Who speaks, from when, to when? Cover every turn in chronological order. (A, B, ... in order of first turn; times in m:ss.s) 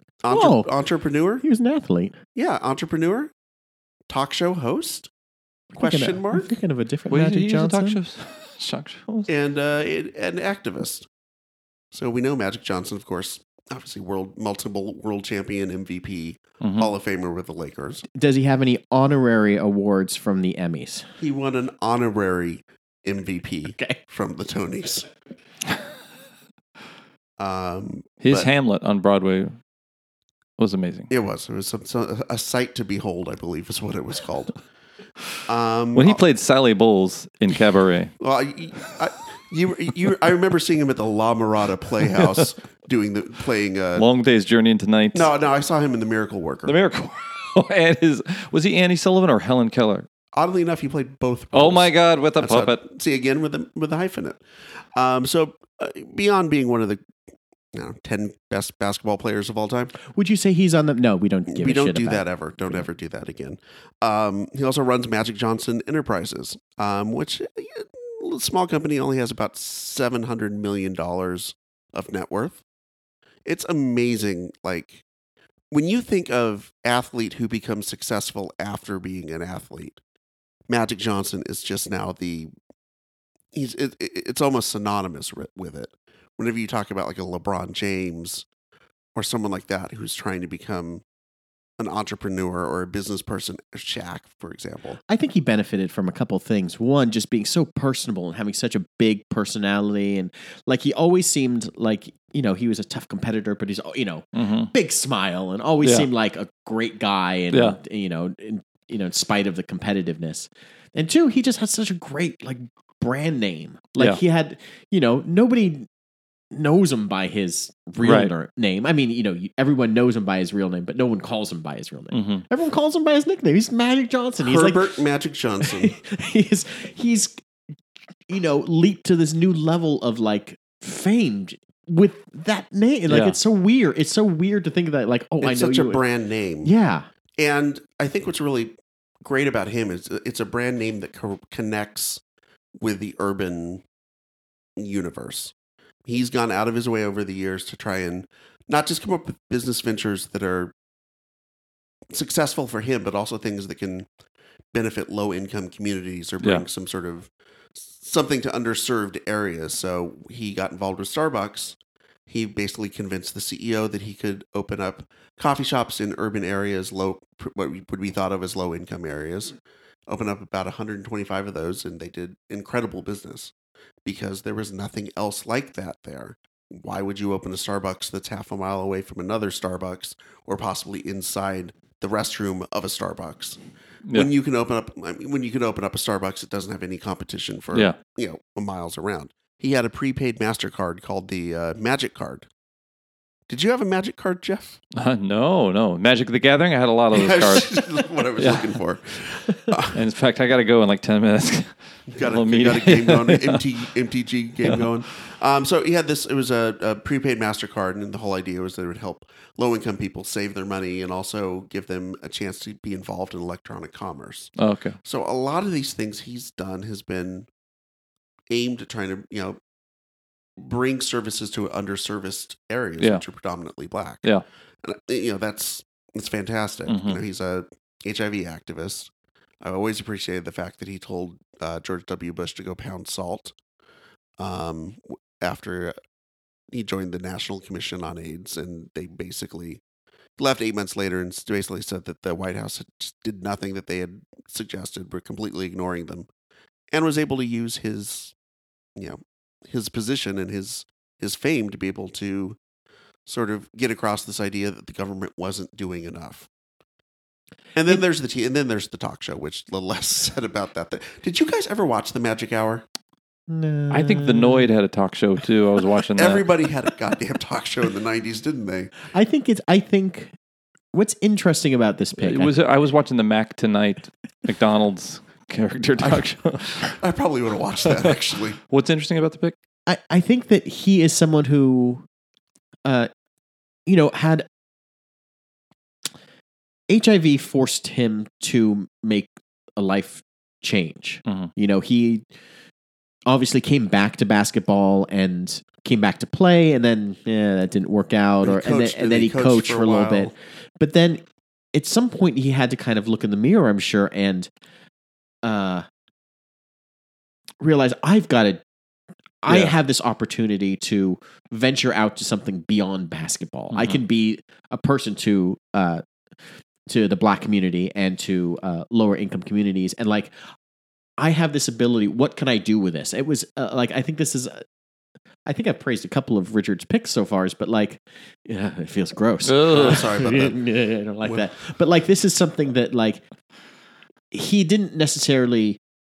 0:00.2-0:01.4 A
0:00.3-0:00.7 B
0:01.4-0:02.2 B
0:02.4-0:03.3 A
0:04.1-0:05.1 A
0:05.7-0:08.0 B
0:05.8-0:06.5 A
0:07.1-0:09.3 C
0:09.3-0:11.1 A
0:11.9-0:18.0 A
0:16.6-0:16.9 C
0:18.1-0:21.1 B
0:21.2-0:25.1 A
0:23.7-0:24.0 B
0:27.4-0:28.5 A
0:28.2-0:29.6 C
0:30.6-0:31.1 C
0:31.1-0:34.6 A
0:35.5-0:36.2 A
0:36.0-0:38.1 C
0:38.2-0:44.1 A
0:44.0-0:45.3 C
0:45.1-0:46.8 A
0:46.7-0:50.1 C
0:50.3-0:54.4 A
0:51.5-0:52.8 C
0:55.0-0:57.0 A
0:57.7-1:00.0 A
1:00.0-1:02.9 B
1:01.5-1:12.6 A
1:13.5-1:15.0 A
1:15.7-1:20.0 A
1:20.7-1:22.5 A
1:23.5-1:28.4 A
1:29.2-1:31.0 A
1:31.8-1:35.0 A
1:35.1-1:55.9 B
1:44.4-1:44.7 C
1:45.8-1:46.1 C
1:47.5-1:47.8 C
1:56.5-2:04.9 B
1:58.0-1:58.3 C
2:02.1-2:02.4 C
2:04.4-2:06.0 A
2:05.6-2:07.4 B
2:08.3-2:16.0 B
2:13.1-2:13.4 C
2:15.4-2:16.7 A
2:16.6-2:17.1 B
2:17.4-2:22.2 A
2:22.8-2:23.8 A
2:24.8-2:25.5 A
2:26.1-2:30.7 A
2:32.1-2:34.1 A
2:34.7-2:41.8 A
2:42.3-2:49.6 A
2:50.1-2:53.5 A
2:54.0-3:03.6 A
3:04.1-3:12.5 A
3:13.5-3:14.8 A
3:15.0-3:18.7 C
3:17.1-3:20.0 A
3:19.9-3:23.6 C
3:22.1-3:34.5 A
3:34.6-3:35.0 C
3:35.0-3:37.5 A
3:38.5-3:39.6 A
3:40.6-3:44.3 A
3:44.8-3:49.1 A
3:46.9-3:47.2 C
3:49.6-3:53.6 A
3:54.4-3:56.0 A
3:56.7-3:59.8 A
4:00.4-4:06.3 A
4:06.9-4:08.4 A
4:09.0-4:12.6 A
4:13.3-4:16.5 A
4:17.8-4:22.8 A
4:23.5-4:24.7 B
4:23.9-4:26.4 C
4:26.2-4:28.9 A
4:29.1-4:30.3 B
4:30.9-4:32.5 B
4:32.2-4:37.0 C
4:36.8-4:38.6 A
4:38.7-4:39.6 C
4:39.9-4:42.0 B
4:43.9-4:44.5 B
4:46.9-4:52.3 B
4:53.3-5:01.2 B
4:58.4-5:00.3 A
5:01.7-5:04.5 B
5:05.4-5:05.9 B
5:07.6-5:08.6 B
5:09.4-5:16.0 B
5:09.5-5:09.7 C
5:13.7-5:14.0 C
5:16.9-5:20.4 B
5:21.2-5:24.6 B
5:25.5-5:33.2 B
5:29.4-5:30.1 C
5:29.7-5:30.7 A
5:31.2-5:31.5 A
5:34.3-5:35.8 B